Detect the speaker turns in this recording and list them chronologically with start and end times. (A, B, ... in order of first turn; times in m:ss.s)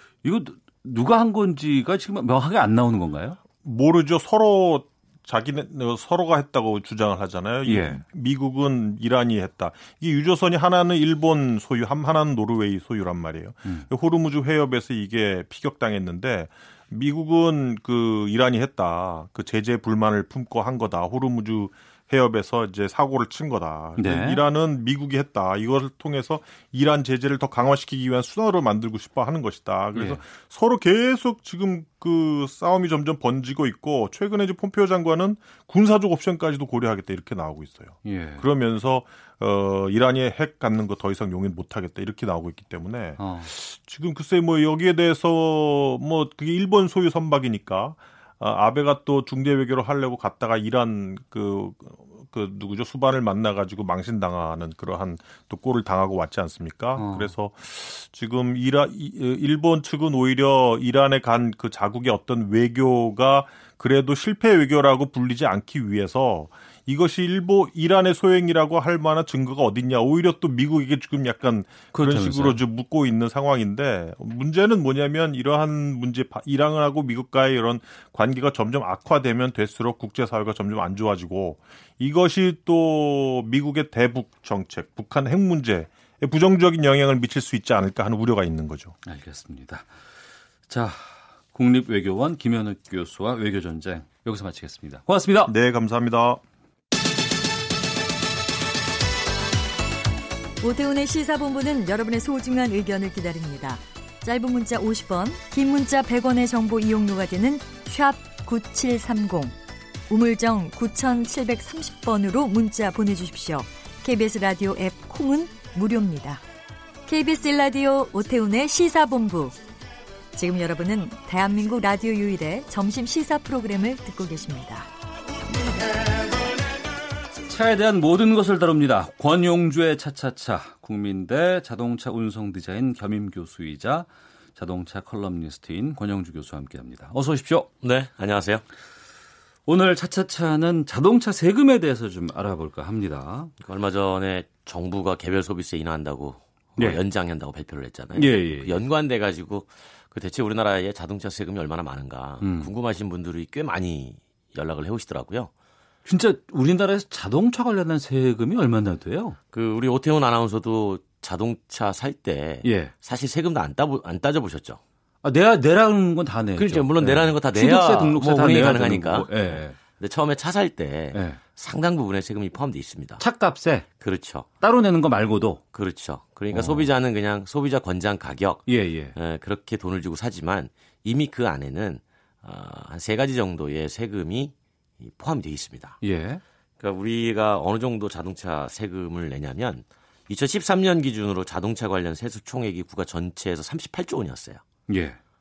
0:00.2-0:03.4 A
0:03.6-1:29.0 B
0:07.6-0:08.0 A
0:24.0-0:24.4 A
0:29.9-0:30.2 A
0:38.0-0:38.4 A
0:43.2-0:43.5 A
0:57.0-0:57.3 A
1:11.9-1:12.6 A
1:29.0-1:29.9 A
1:30.7-1:35.5 A
1:35.4-1:36.4 B
1:40.6-1:49.6 C
1:50.1-1:56.4 C
1:57.0-1:59.5 C
2:00.3-2:04.9 C
2:07.4-2:17.7 A
2:17.8-2:18.6 D
2:19.6-2:23.5 A
2:23.6-2:35.5 D
2:26.8-2:27.0 A
2:28.1-2:28.8 A
2:32.4-2:32.7 A
2:36.0-2:39.4 A
2:39.5-2:44.8 D
2:42.6-2:42.9 A
2:45.2-2:49.8 A
2:46.6-2:53.2 D
2:51.1-2:51.4 A
2:53.2-2:53.9 A
2:54.0-2:54.5 D
2:54.6-2:55.6 A
2:55.7-3:06.0 D
2:56.5-2:56.9 A
2:58.6-2:59.1 A
3:06.0-3:06.4 A
3:06.8-3:14.6 D
3:14.9-3:15.2 A